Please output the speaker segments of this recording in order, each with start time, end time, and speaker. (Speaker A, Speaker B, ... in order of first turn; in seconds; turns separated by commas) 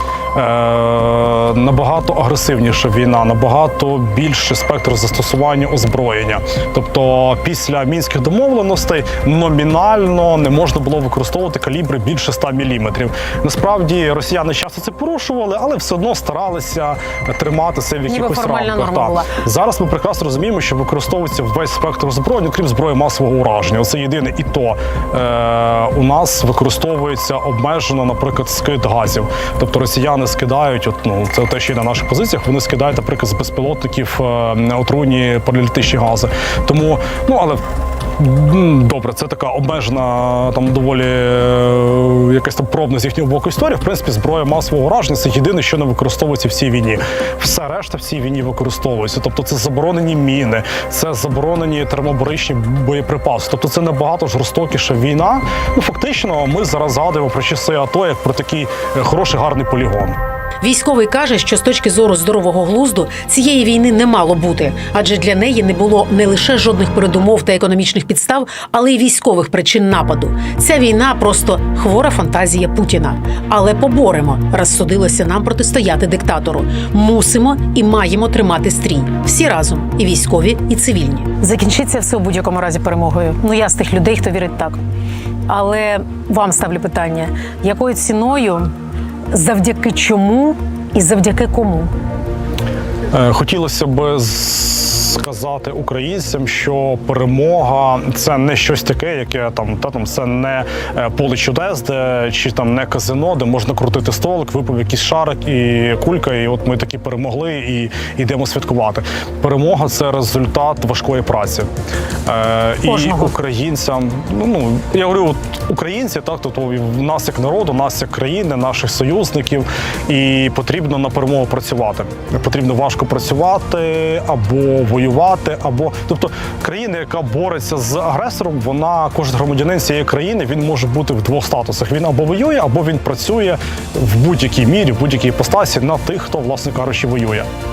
Speaker A: 0.3-37.6, Speaker B: 18.1-19.3, Speaker A: 38.2-60.2, Speaker B: 60.6-84.8, Speaker B: 85.5-88.7, Speaker B: 89.3-91.9, Speaker A: 93.1-111.7, Speaker A: 112.2-137.5, Speaker B: 112.8-113.3